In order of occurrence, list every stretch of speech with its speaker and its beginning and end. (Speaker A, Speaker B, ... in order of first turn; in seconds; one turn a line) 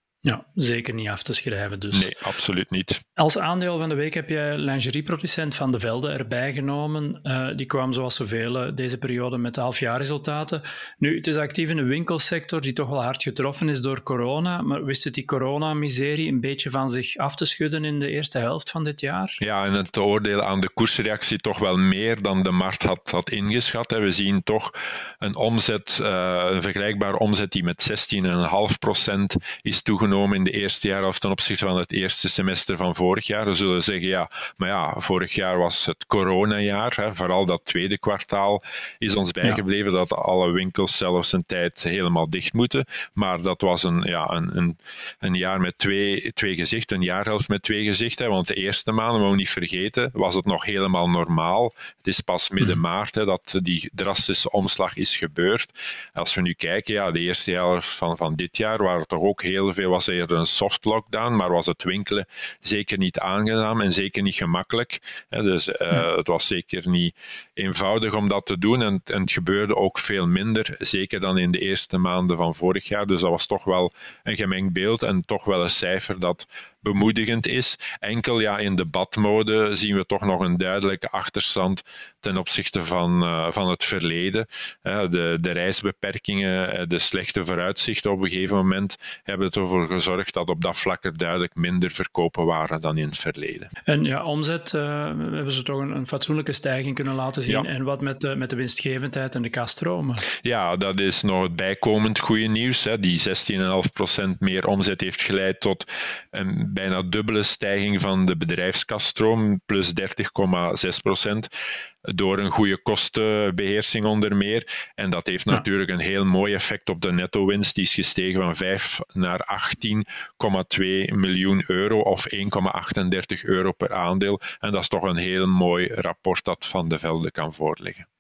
Speaker A: 0.2-2.1
Speaker B: 1.9-3.0
Speaker A: 3.2-19.4
Speaker B: 19.4-93.7
Speaker A: 93.9-100.3
Speaker B: 100.4-111.5
Speaker B: 112.0-128.1